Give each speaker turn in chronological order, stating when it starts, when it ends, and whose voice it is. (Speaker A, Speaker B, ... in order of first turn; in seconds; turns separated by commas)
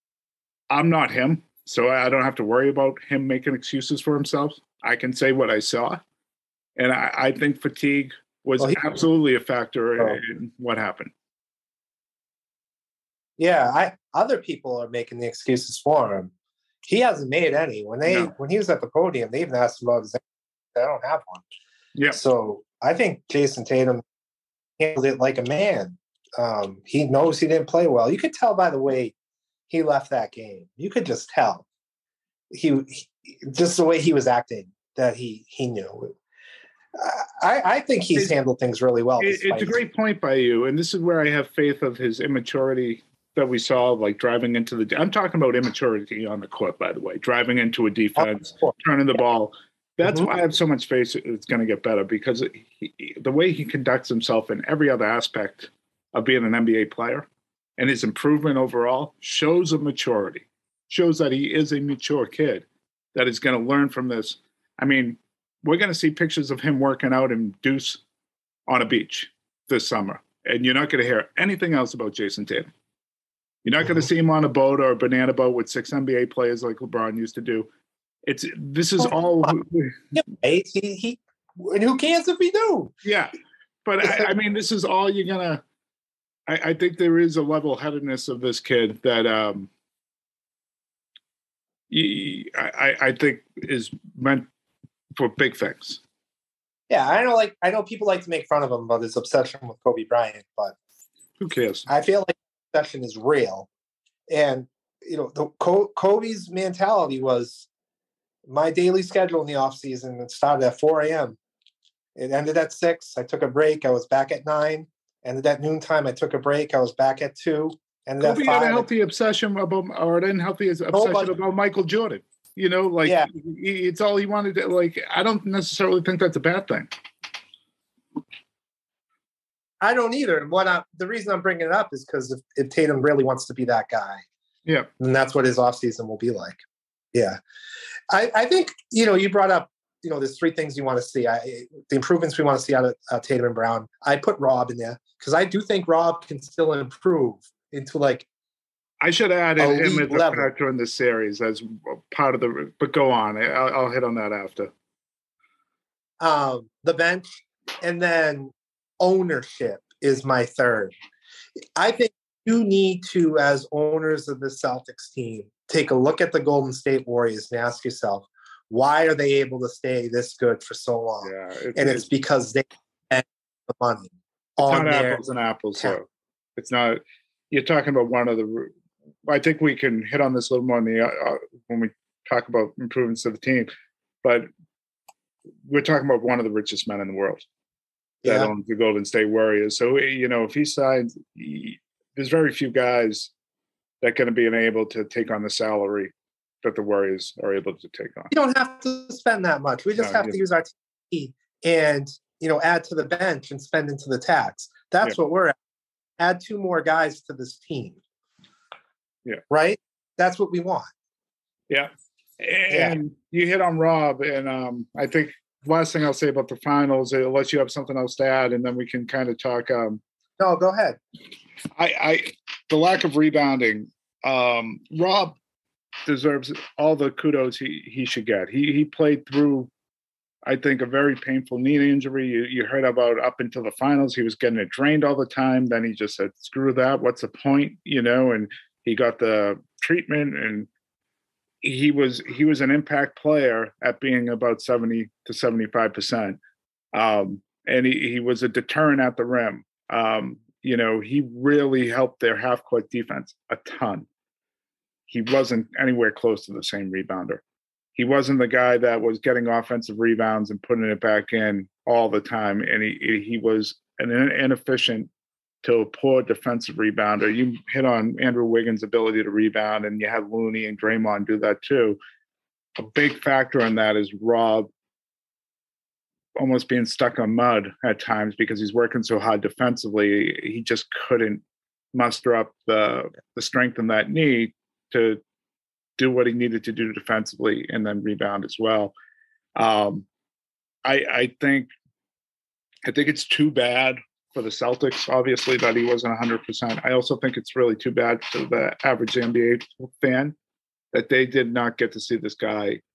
Speaker A: 0.7-6.0, Speaker A: 6.8-11.1, Speaker B: 13.4-16.3, Speaker B: 16.9-20.2, Speaker A: 18.1-18.3, Speaker B: 20.7-21.4, Speaker A: 21.9-22.2, Speaker B: 22.1-24.0, Speaker B: 24.8-29.1, Speaker B: 29.7-31.7, Speaker B: 32.5-36.1, Speaker B: 37.0-39.8, Speaker A: 39.2-68.0, Speaker B: 48.2-48.7, Speaker A: 68.7-72.7, Speaker A: 73.6-77.7, Speaker A: 78.2-80.0, Speaker B: 80.2-82.9, Speaker A: 83.0-85.6, Speaker A: 86.5-89.7, Speaker A: 91.9-94.5, Speaker A: 95.2-96.0, Speaker B: 96.9-100.8, Speaker A: 101.4-101.9, Speaker B: 101.9-103.7, Speaker B: 104.3-107.7, Speaker B: 108.5-111.4, Speaker B: 112.2-118.9, Speaker A: 118.2-126.9, Speaker B: 120.9-121.3, Speaker B: 129.8-134.2, Speaker B: 135.0-136.6, Speaker B: 137.1-137.4, Speaker B: 138.1-148.3, Speaker A: 149.0-154.7, Speaker B: 149.6-150.5, Speaker B: 156.2-157.3, Speaker B: 157.8-160.9, Speaker B: 161.8-175.2, Speaker A: 171.2-172.1, Speaker A: 174.6-178.7, Speaker A: 179.2-183.7, Speaker A: 185.7-187.4, Speaker B: 188.2-188.5, Speaker A: 188.2-193.3, Speaker A: 194.0-196.1, Speaker A: 196.6-198.3, Speaker B: 198.3-205.6, Speaker A: 200.0-200.4, Speaker B: 206.2-208.0, Speaker B: 209.5-210.9, Speaker A: 211.7-220.0, Speaker B: 212.7-213.0, Speaker B: 220.4-221.0, Speaker A: 221.8-225.4, Speaker A: 226.1-229.7, Speaker A: 230.5-240.7, Speaker A: 241.6-246.4, Speaker A: 246.9-254.1, Speaker A: 255.1-257.4, Speaker A: 258.0-265.1, Speaker A: 265.6-272.0, Speaker A: 272.8-274.7, Speaker A: 276.4-281.4, Speaker A: 281.9-285.2, Speaker A: 286.0-288.9, Speaker A: 289.6-290.1, Speaker A: 290.9-291.7, Speaker A: 292.9-300.4, Speaker A: 300.9-302.8